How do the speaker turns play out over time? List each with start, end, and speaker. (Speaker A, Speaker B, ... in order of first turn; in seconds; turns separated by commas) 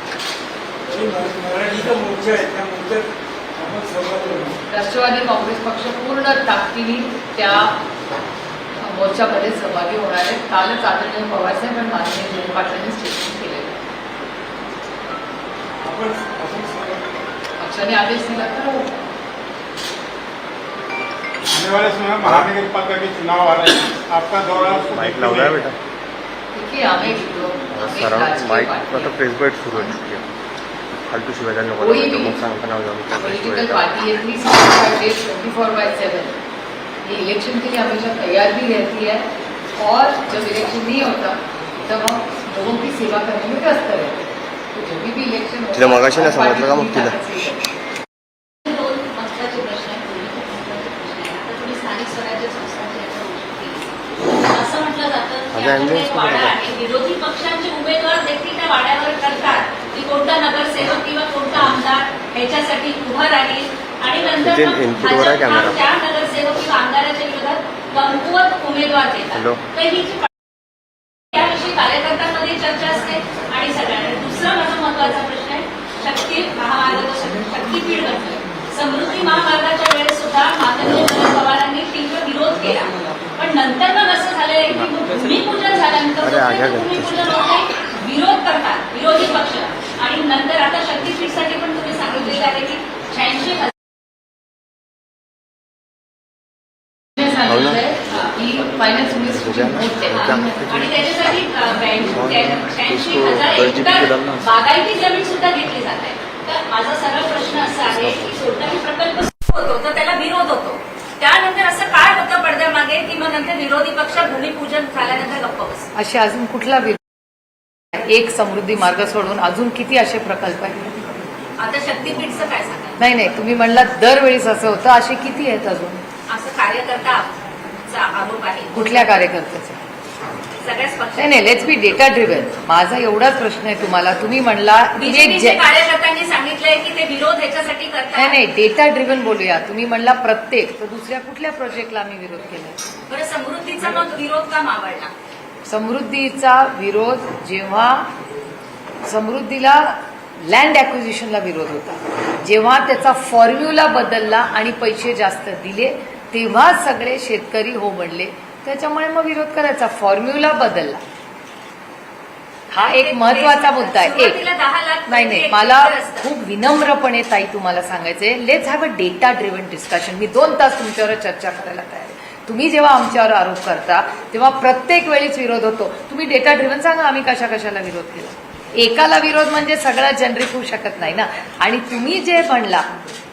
Speaker A: 0.9-4.6, Speaker B: 4.7-7.8, Speaker B: 8.8-13.8, Speaker A: 15.8-17.0, Speaker B: 17.6-19.1, Speaker C: 21.5-25.7, Speaker D: 24.9-25.8, Speaker B: 26.5-29.2, Speaker D: 27.7-30.2, Speaker B: 29.7-30.0, Speaker D: 30.9-33.9, Speaker B: 31.8-32.4, Speaker B: 33.1-36.4, Speaker B: 37.0-47.7, Speaker D: 45.7-47.2, Speaker E: 48.7-70.3, Speaker D: 55.5-56.6, Speaker D: 64.4-65.8, Speaker D: 69.3-69.6, Speaker E: 71.3-93.7, Speaker D: 84.7-85.0, Speaker D: 86.2-87.3, Speaker B: 97.2-100.7, Speaker D: 97.5-97.8, Speaker D: 99.2-101.3, Speaker E: 100.0-115.9, Speaker D: 102.1-104.4, Speaker B: 116.0-117.0, Speaker B: 117.9-120.9, Speaker E: 121.6-123.0, Speaker B: 123.0-126.0, Speaker E: 126.3-127.3, Speaker E: 127.9-128.7, Speaker B: 128.7-129.8, Speaker E: 130.6-131.6, Speaker B: 131.2-135.6, Speaker E: 135.0-138.4, Speaker B: 138.2-142.8, Speaker E: 143.1-145.1, Speaker B: 145.7-148.1, Speaker B: 149.0-161.0, Speaker B: 162.7-164.4, Speaker E: 162.8-166.3, Speaker B: 165.1-182.9